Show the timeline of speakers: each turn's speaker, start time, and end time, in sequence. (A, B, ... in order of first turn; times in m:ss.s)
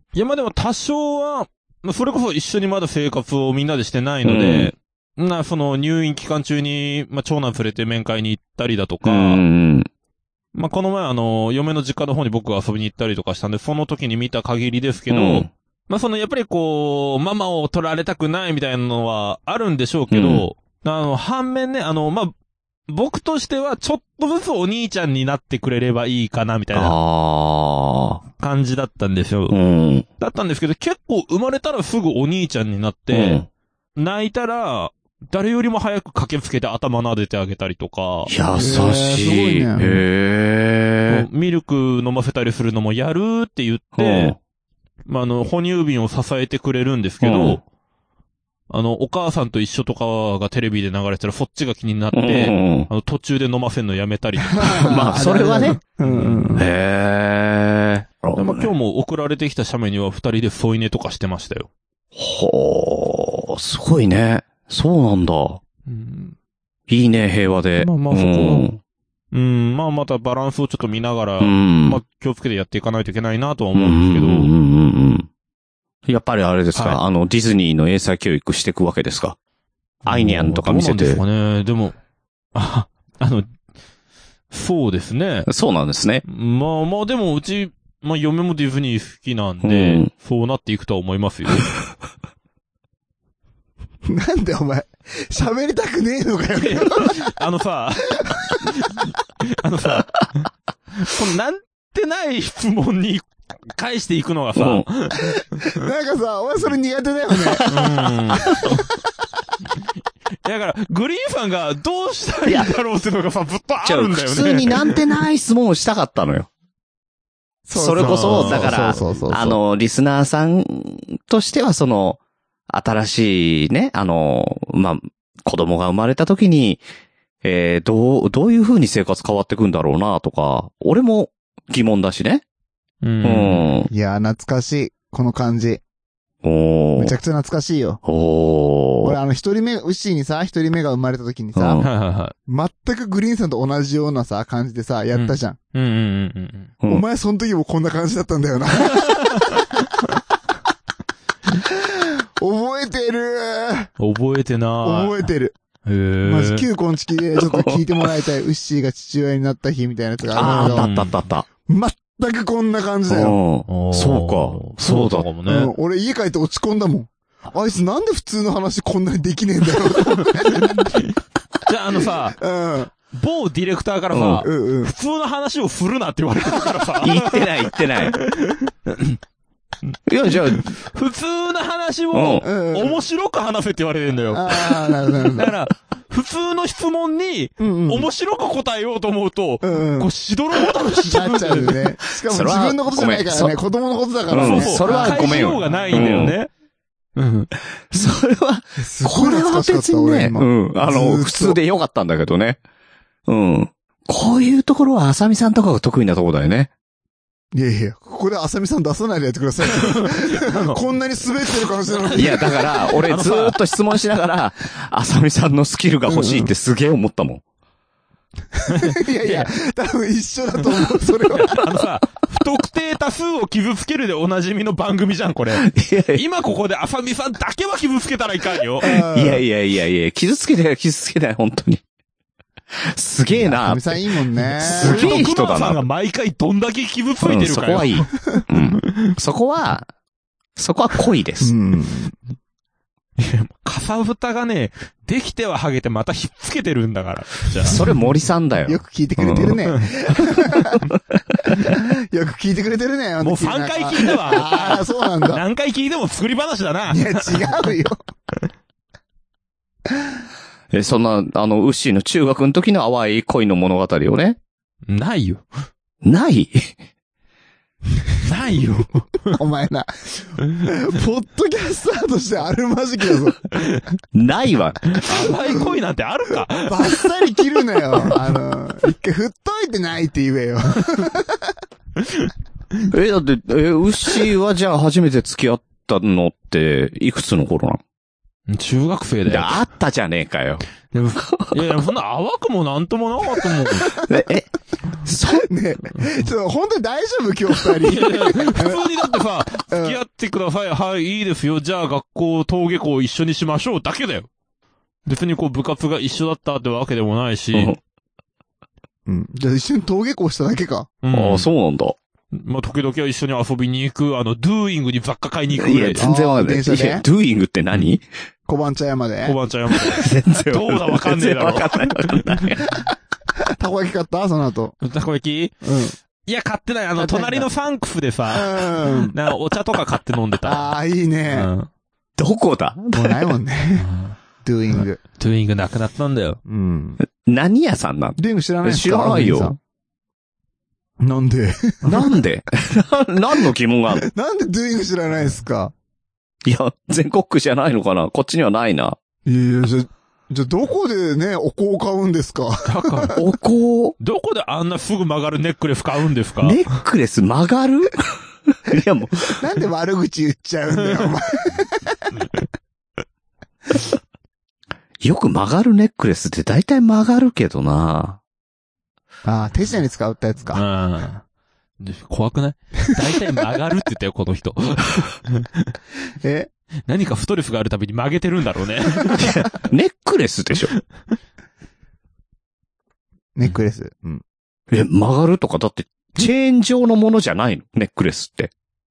0:00.1-0:09.4 A
0:04.2-0:04.7 B
0:09.0-0:09.9 B
0:10.5-0:22.3 A
0:15.1-0:15.5 B
0:20.1-0:20.5 B
0:22.9-0:27.0 A
0:26.7-0:28.2 B
0:28.4-0:29.6 A
0:29.5-0:30.1 B
0:30.2-0:33.4 A
0:33.1-0:33.5 B
0:34.0-0:38.3 A
0:38.3-0:41.3 B
0:38.6-0:39.8 C
0:41.1-0:44.4 A
0:44.0-0:44.4 B
0:45.1-0:47.6 A
0:47.2-0:47.6 B
0:48.7-0:55.3 A
0:52.1-0:52.9 B
0:54.5-0:56.6 C
0:54.8-0:55.8 B
0:56.0-0:56.6 A
0:56.6-0:58.7 B
0:58.4-1:01.7 A
1:02.2-1:05.6 B
1:05.9-1:06.4 A
1:06.9-1:08.8 B
1:07.8-1:08.7 A
1:09.3-1:14.5 A
1:11.4-1:12.0 B
1:13.7-1:15.3 B
1:16.1-1:19.4 B
1:16.7-1:17.0 A
1:20.0-1:22.0 A
1:20.1-1:21.2 B
1:22.5-1:23.5 A
1:24.5-1:25.5 A
1:25.5-1:26.2 B
1:26.3-1:31.7 A
1:29.6-1:30.1 B
1:34.1-1:37.3 C
1:36.6-1:40.1 A
1:38.2-1:38.6 C
1:41.0-1:45.4 A
1:44.6-1:44.9 B
1:45.6-1:47.8 C
1:47.7-1:48.8 A
1:50.4-1:55.0 A
1:52.5-1:52.7 B
1:53.8-1:56.5 B
1:57.7-1:59.6 C
1:57.7-2:02.2 B
1:58.0-1:58.8 A
2:02.7-2:06.8 B
2:07.4-2:12.4 B
2:13.0-2:13.7 A
2:13.2-2:13.9 B
2:13.9-2:15.8 C
2:16.4-2:17.2 B
2:17.0-2:18.0 C
2:18.0-2:19.2 B
2:19.0-2:21.8 C
2:21.6-2:21.9 B
2:21.8-2:22.3 A
2:22.5-2:25.6 C
2:25.1-2:26.7 A
2:26.9-2:29.5 C
2:28.9-2:29.6 A
2:31.7-2:33.9 C
2:34.0-2:35.3 A
2:34.8-2:35.6 C
2:35.9-2:36.7 A
2:36.2-2:40.9 C
2:37.4-2:37.8 B
2:40.3-2:41.5 B
2:40.4-2:41.1 A
2:41.7-2:43.4 C
2:43.1-2:45.3 B
2:43.7-2:45.7 A
2:45.5-2:50.9 C
2:50.1-2:51.1 A
2:51.7-2:52.4 A
2:52.4-2:52.9 C
2:53.1-2:59.2 A
2:54.1-2:54.4 B
2:54.4-2:54.9 C
2:57.0-2:58.2 B
3:00.1-3:00.7 B
3:00.3-3:11.8 A
3:02.1-3:02.4 B
3:02.4-3:03.0 C
3:04.3-3:05.5 C
3:07.6-3:08.1 C
3:09.6-3:10.1 C
3:11.0-3:16.3 C
3:12.3-3:13.6 B
3:14.3-3:16.4 B
3:14.4-3:16.5 A
3:17.2-3:17.5 A
3:17.9-3:22.6 B
3:18.8-3:21.6 C
3:23.3-3:26.7 B
3:27.5-3:32.7 C
3:29.8-3:30.8 A
3:31.8-3:33.6 A
3:32.2-3:37.4 B
3:36.1-3:36.5 C
3:38.6-3:41.6 C
3:38.7-3:39.5 A
3:41.3-3:48.9 A
3:45.6-3:46.2 B
3:48.8-3:49.4 C
3:48.9-3:51.8 B
3:52.8-3:54.0 B
3:53.4-3:55.2 C
3:54.6-3:55.8 B
3:54.6-3:58.1 A
3:57.2-3:59.9 B
3:58.9-3:59.1 A
4:00.6-4:01.5 B
4:01.4-4:02.2 C
4:03.2-4:07.8 A
4:07.7-4:09.6 B
4:08.7-4:10.8 C
4:11.6-4:15.4 C
4:13.2-4:17.4 A
4:16.9-4:18.0 C
4:20.7-4:24.4 B
4:24.9-4:25.4 A
4:26.0-4:26.7 B
4:28.2-4:29.4 A
4:29.3-4:33.5 C
4:34.2-4:34.9 B
4:34.9-4:36.9 A
4:36.6-4:41.5 C
4:42.0-4:42.8 A
4:42.9-4:47.8 B
4:48.5-4:49.6 A
4:49.3-4:50.6 B
4:50.9-4:54.0 A
4:54.0-4:54.5 B
4:55.0-4:55.4 B
4:55.3-4:58.8 C
4:57.8-5:04.3 A
4:59.7-5:00.0 C
5:05.1-5:07.8 A
5:07.5-5:07.8 B
5:09.1-5:10.9 C
5:11.0-5:11.5 A
5:11.1-5:12.0 B
5:12.3-5:16.1 A
5:15.6-5:18.0 B
5:16.0-5:17.0 C
5:18.5-5:19.4 C
5:19.2-5:22.4 A
5:19.9-5:22.8 B
5:23.6-5:24.8 C
5:24.8-5:25.6 A
5:25.6-5:26.0 C
5:26.2-5:30.7 A
5:27.0-5:27.5 C
5:28.3-5:29.2 C
5:30.4-5:31.5 C
5:31.3-5:31.7 A
5:32.2-5:33.3 B
5:32.9-5:33.9 C
5:33.8-5:34.2 A
5:34.4-5:35.0 C
5:35.2-5:36.4 A
5:36.5-5:37.0 C
5:37.1-5:39.6 B
5:38.2-5:39.6 C
5:41.0-5:42.2 C
5:41.8-5:44.1 B
5:44.0-5:45.7 C
5:46.4-5:49.0 B
5:49.3-5:53.2 C
5:52.7-5:53.2 A
5:53.2-5:54.0 B
5:54.0-5:56.6 A
5:56.4-5:59.4 B
5:59.4-6:02.0 C
6:05.0-6:08.2 B
6:09.2-6:10.6 C
6:10.5-6:11.2 A
6:11.8-6:15.7 A
6:16.2-6:16.5 C
6:16.9-6:19.5 A
6:19.2-6:20.7 B
6:23.4-6:24.2 C
6:24.7-6:28.5 B